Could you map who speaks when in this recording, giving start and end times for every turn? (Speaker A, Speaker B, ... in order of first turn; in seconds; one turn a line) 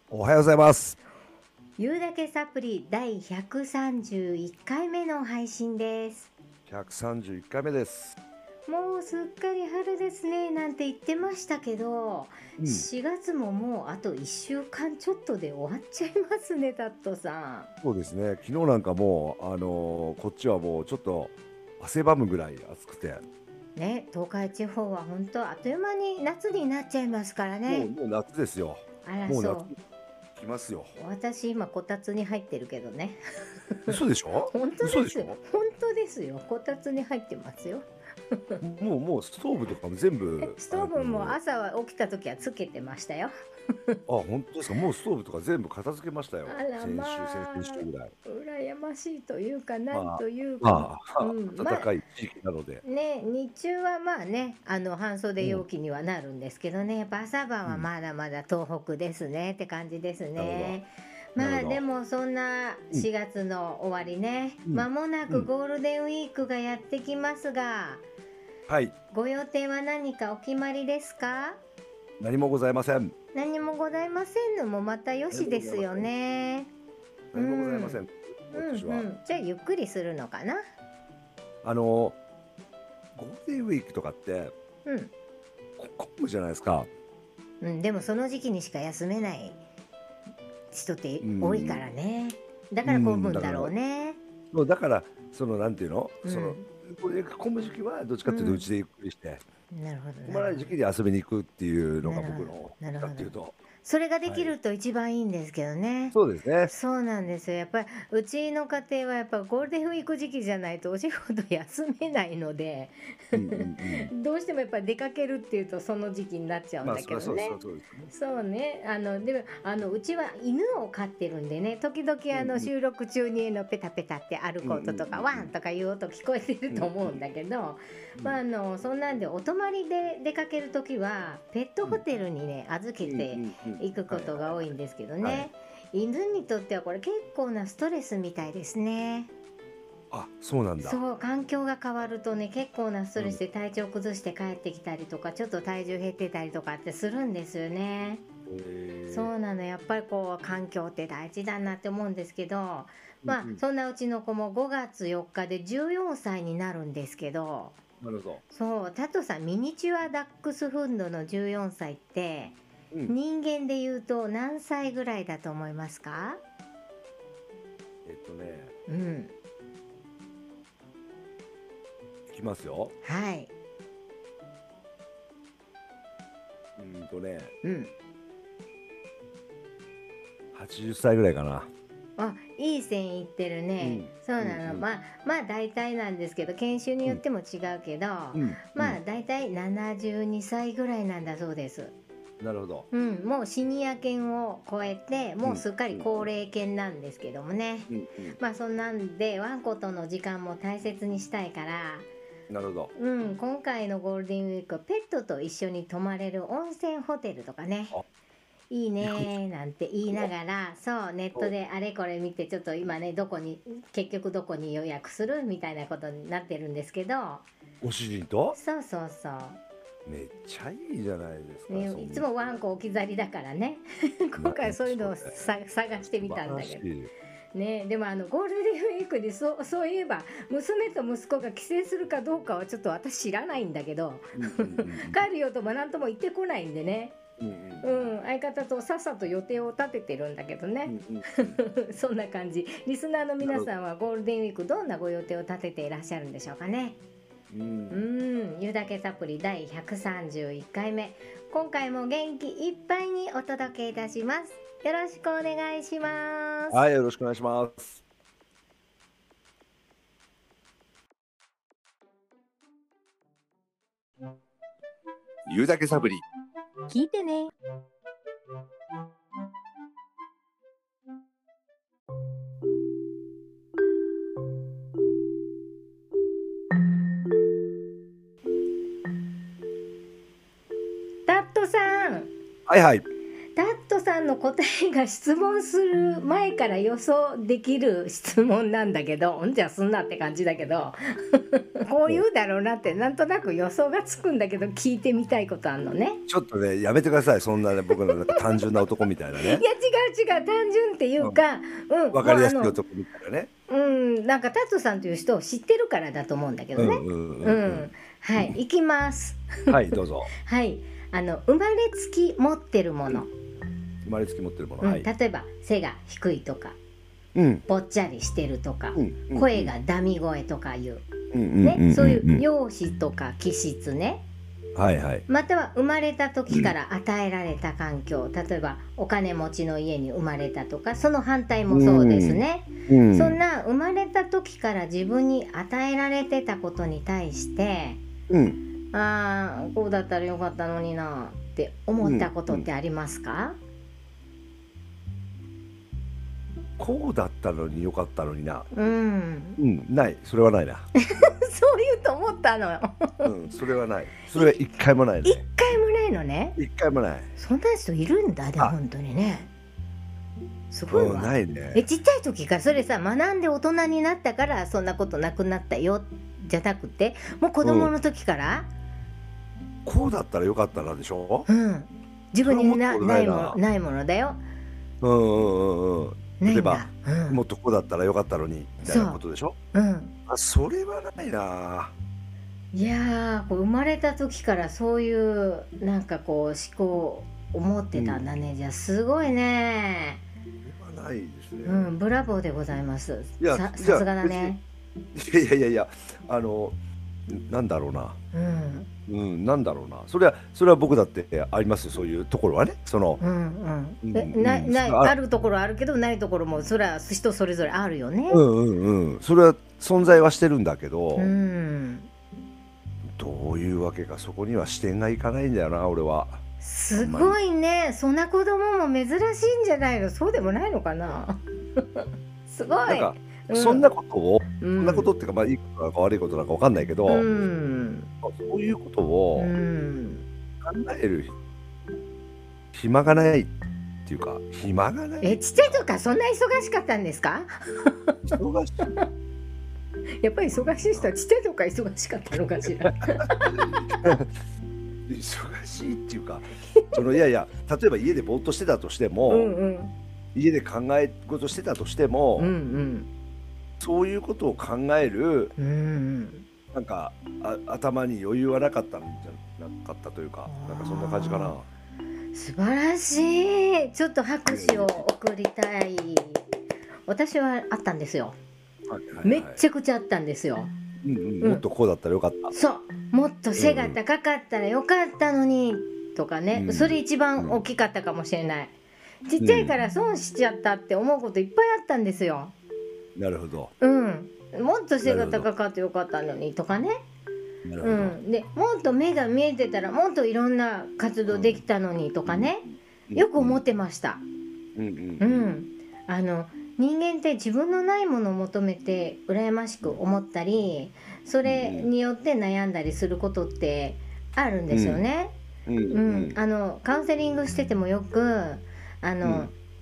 Speaker A: 0.1-1.0
Speaker B: 1.8-6.3
Speaker A: 6.7-8.2
Speaker B: 8.7-17.7
Speaker A: 12.6-12.8
Speaker A: 17.8-23.2
Speaker B: 23.8-27.9
Speaker A: 27.7-29.8
Speaker B: 29.0-29.7
Speaker A: 30.4-30.9
Speaker B: 31.0-33.2
Speaker B: 33.7-38.6
Speaker A: 33.9-35.4
Speaker A: 38.6-41.4
Speaker B: 40.4-43.3
Speaker A: 44.1-48.1
Speaker B: 46.5-51.9
Speaker A: 49.9-52.8
Speaker B: 52.8-68.0
Speaker A: 60.4-60.8
Speaker A: 61.4-61.8
Speaker A: 64.7-65.5
Speaker A: 68.7-68.9
Speaker B: 69.1-71.6
Speaker A: 72.2-73.1
Speaker B: 73.3-76.7
Speaker A: 75.3-76.1
Speaker A: 77.3-79.1
Speaker B: 77.3-78.0
Speaker B: 78.5-80.6
Speaker A: 81.6-82.2
Speaker A: 83.2-84.5
Speaker B: 84.8-85.1
Speaker A: 85.8-86.9
Speaker B: 87.6-89.6
Speaker B: 90.7-94.2
Speaker A: 91.2-91.8
Speaker A: 92.8-93.7
Speaker A: 94.5-99.4
Speaker B: 96.2-96.7
Speaker B: 98.3-98.6
Speaker B: 99.7-100.8
Speaker A: 100.3-103.6
Speaker B: 102.0-117.6
Speaker A: 104.3-104.5
Speaker A: 106.1-106.7
Speaker A: 113.3-114.1
Speaker A: 116.8-118.1
Speaker B: 118.1-139.3
Speaker A: 122.3-122.7
Speaker A: 124.6-125.5
Speaker A: 126.7-127.2
Speaker A: 133.0-134.7
Speaker A: 135.2-135.5
Speaker A: 140.1-141.0
Speaker B: 140.8-148.2
Speaker A: 148.5-149.3
Speaker B: 149.1-157.8
Speaker A: 153.2-153.6
Speaker A: 158.0-158.4
Speaker B: 158.5-166.4
Speaker A: 168.1-168.7
Speaker B: 168.9-169.3
Speaker A: 172.3-172.9
Speaker B: 173.0-173.5
Speaker A: 176.8-177.5
Speaker B: 177.6-177.9
Speaker A: 180.5-181.7
Speaker B: 182.2-191.9
Speaker A: 183.8-184.8
Speaker A: 188.3-189.0
Speaker A: 192.4-192.9
Speaker B: 192.9-202.1
Speaker A: 195.4-196.2
Speaker A: 197.9-198.4
Speaker A: 202.5-202.9
Speaker B: 203.0-207.9
Speaker B: 208.7-217.4
Speaker A: 209.0-209.3
Speaker A: 217.8-218.6
Speaker B: 218.5-219.6
Speaker A: 220.1-222.3
Speaker B: 221.7-226.8
Speaker A: 224.4-225.3
Speaker A: 226.1-227.1
Speaker B: 227.6-237.2
Speaker A: 234.4-235.2
Speaker A: 237.4-238.1
Speaker B: 237.8-247.0
Speaker A: 240.9-241.6
Speaker A: 243.4-243.7
Speaker A: 247.5-248.0
Speaker B: 247.9-256.8
Speaker A: 256.7-258.0
Speaker A: 265.5-266.2
Speaker B: 266.9-267.5
Speaker B: 281.3-282.3
Speaker A: 282.7-283.0
Speaker B: 283.6-296.2
Speaker A: 296.3-299.6
Speaker B: 297.9-298.4
Speaker B: 299.4-302.8
Speaker A: 302.1-303.5
Speaker B: 303.7-313.3
Speaker A: 306.8-307.9
Speaker A: 309.7-310.3
Speaker A: 314.0-315.1
Speaker B: 314.8-316.8
Speaker A: 317.4-317.6
Speaker B: 317.7-321.1
Speaker A: 318.9-319.7
Speaker A: 321.3-322.4
Speaker B: 321.6-324.2
Speaker A: 324.8-325.2
Speaker B: 325.3-338.0
Speaker A: 331.7-333.4
Speaker A: 338.3-338.6
Speaker B: 338.9-343.6
Speaker A: 342.0-342.7
Speaker A: 346.8-348.7
Speaker B: 348.7-349.6
Speaker A: 349.6-350.9
Speaker B: 351.0-353.3
Speaker A: 353.2-355.4
Speaker B: 354.3-356.6
Speaker A: 356.6-357.3
Speaker B: 357.4-359.5
Speaker B: 360.7-368.7
Speaker A: 360.9-361.8
Speaker A: 367.6-367.9
Speaker A: 369.9-371.5
Speaker B: 371.5-374.4
Speaker A: 372.4-373.6
Speaker A: 375.0-379.6
Speaker B: 376.4-377.4
Speaker B: 378.9-379.2
Speaker B: 379.7-380.1
Speaker A: 380.3-381.9
Speaker B: 382.7-390.2
Speaker A: 387.9-388.2
Speaker A: 390.6-391.9
Speaker B: 391.6-394.6
Speaker A: 393.4-394.5
Speaker A: 395.1-396.8
Speaker A: 397.3-398.2
Speaker B: 398.3-398.9
Speaker A: 399.1-403.2
Speaker B: 403.2-408.4
Speaker A: 404.0-405.1
Speaker A: 408.3-411.3
Speaker B: 411.2-412.1
Speaker A: 413.1-416.4
Speaker B: 416.6-423.9
Speaker A: 416.9-417.4
Speaker A: 422.9-427.3
Speaker B: 424.6-425.1
Speaker B: 427.1-428.1
Speaker A: 428.2-429.5
Speaker B: 429.4-430.2
Speaker A: 430.6-431.4
Speaker A: 432.7-433.5
Speaker A: 434.1-435.9
Speaker B: 435.2-439.1
Speaker A: 438.3-438.9
Speaker B: 440.2-444.2
Speaker A: 440.6-441.1
Speaker A: 442.6-444.3
Speaker A: 445.1-449.5
Speaker B: 446.8-447.0
Speaker B: 449.3-449.9
Speaker A: 450.4-452.5
Speaker B: 452.4-453.1
Speaker A: 453.8-455.5
Speaker B: 455.6-456.4
Speaker A: 456.7-461.7
Speaker B: 460.5-461.6
Speaker B: 462.3-466.4
Speaker A: 464.5-465.1
Speaker B: 467.1-468.4
Speaker A: 468.9-469.6
Speaker B: 469.2-470.7
Speaker A: 471.0-472.5
Speaker B: 472.5-478.7
Speaker A: 473.6-474.0
Speaker A: 476.5-477.6
Speaker B: 479.2-482.5
Speaker A: 479.4-479.8
Speaker A: 483.2-483.7
Speaker B: 483.8-487.0
Speaker A: 485.0-485.5
Speaker A: 487.6-488.2
Speaker B: 487.8-492.6
Speaker A: 491.3-491.6
Speaker A: 492.3-492.5
Speaker A: 493.1-493.6
Speaker B: 493.1-494.2
Speaker A: 494.8-495.5
Speaker B: 495.2-505.4
Speaker A: 501.4-501.9
Speaker A: 504.7-505.0
Speaker A: 505.7-506.4
Speaker B: 505.9-509.5
Speaker A: 509.2-509.5